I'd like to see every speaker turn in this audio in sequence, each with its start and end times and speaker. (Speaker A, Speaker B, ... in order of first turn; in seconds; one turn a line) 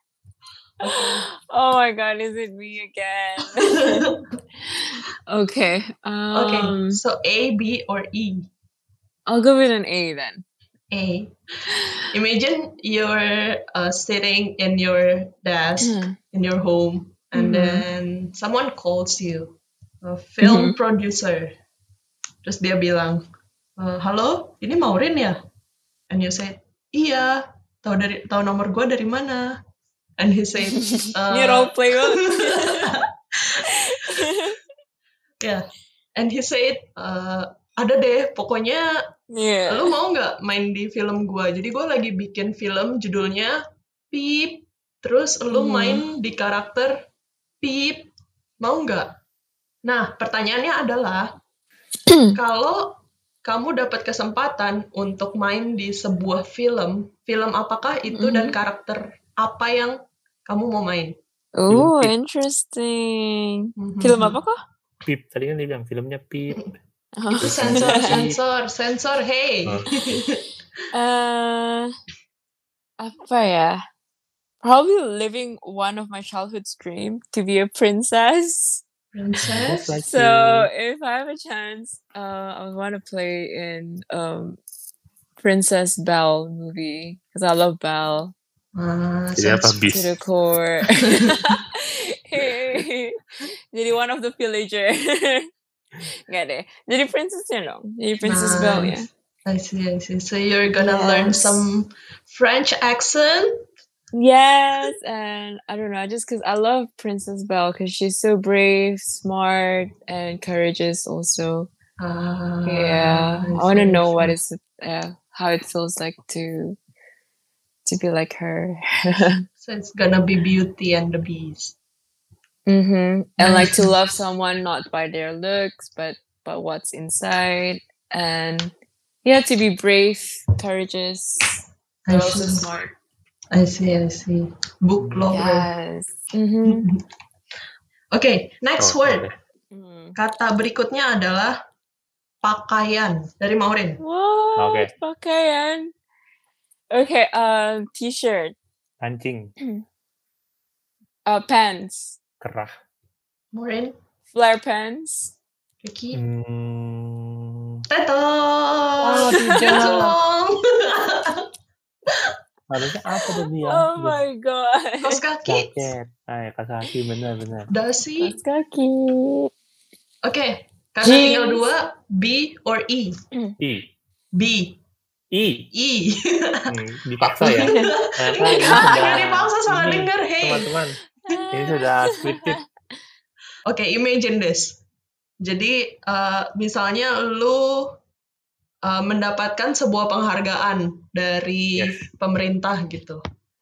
Speaker A: 0.8-1.2
Speaker B: 0.8-4.1
Speaker A: 3.6-4.2
Speaker B: 4.7-7.0
Speaker A: 6.3-8.5
Speaker B: 9.3-10.4
Speaker A: 10.9-11.3
Speaker A: 12.1-21.5
Speaker B: 15.8-16.1
Speaker B: 17.3-17.9
Speaker B: 20.4-20.8
Speaker A: 22.4-23.2
Speaker A: 23.8-25.4
Speaker A: 26.1-29.6
Speaker A: 30.2-34.4
Speaker B: 30.7-33.0
Speaker B: 33.9-34.5
Speaker A: 36.1-38.9
Speaker B: 39.3-39.9
Speaker A: 39.7-43.5
Speaker A: 44.1-47.0
Speaker B: 45.5-46.0
Speaker A: 47.6-49.1
Speaker A: 49.8-51.3
Speaker B: 52.1-52.4
Speaker A: 52.3-52.9
Speaker A: 53.4-61.1
Speaker B: 58.1-58.5
Speaker B: 61.5-64.6
Speaker C: 61.7-62.1
Speaker A: 63.8-64.3
Speaker C: 65.0-66.6
Speaker B: 67.2-68.2
Speaker A: 67.4-70.4
Speaker C: 67.4-68.4
Speaker B: 70.9-71.9
Speaker B: 73.0-73.8
Speaker B: 74.6-78.8
Speaker A: 79.1-79.9
Speaker C: 79.4-80.7
Speaker B: 80.0-84.6
Speaker B: 85.4-88.3
Speaker A: 88.8-89.8
Speaker C: 89.4-90.1
Speaker B: 89.9-95.5
Speaker A: 91.0-91.4
Speaker B: 96.3-99.1
Speaker A: 98.2-103.6
Speaker B: 100.8-101.7
Speaker B: 104.1-111.7
Speaker A: 112.0-114.3
Speaker B: 112.7-116.8
Speaker B: 117.8-119.4
Speaker A: 119.6-121.7
Speaker B: 122.7-128.7
Speaker A: 123.4-123.9
Speaker B: 129.2-132.9
Speaker A: 132.1-132.7
Speaker A: 133.5-135.7
Speaker C: 135.0-135.3
Speaker B: 135.3-136.9
Speaker A: 136.6-136.9
Speaker A: 138.1-139.3
Speaker C: 138.8-139.3
Speaker B: 139.7-140.2
Speaker A: 140.2-141.5
Speaker A: 142.4-144.0
Speaker B: 144.0-145.9
Speaker C: 144.6-144.9
Speaker B: 146.9-148.5
Speaker C: 149.0-149.5
Speaker B: 151.2-152.2
Speaker C: 152.4-152.7
Speaker A: 153.5-153.9
Speaker B: 154.3-155.3
Speaker A: 155.8-156.2
Speaker C: 156.1-157.8
Speaker A: 157.9-161.4
Speaker C: 159.0-160.1
Speaker B: 159.3-160.1
Speaker C: 162.7-164.2
Speaker B: 163.6-165.2
Speaker A: 165.0-165.8
Speaker C: 165.5-167.7
Speaker A: 167.7-168.4
Speaker B: 168.2-169.5
Speaker A: 170.2-173.2
Speaker B: 171.0-171.7
Speaker C: 173.6-173.9
Speaker A: 174.4-174.8
Speaker C: 175.3-175.7
Speaker A: 175.7-176.7
Speaker C: 176.7-181.0
Speaker A: 177.2-180.7
Speaker B: 177.4-177.9
Speaker B: 178.4-179.4
Speaker B: 181.3-182.6
Speaker C: 181.5-182.6
Speaker A: 183.7-184.8
Speaker A: 185.4-187.9
Speaker A: 188.8-193.2
Speaker C: 191.8-192.0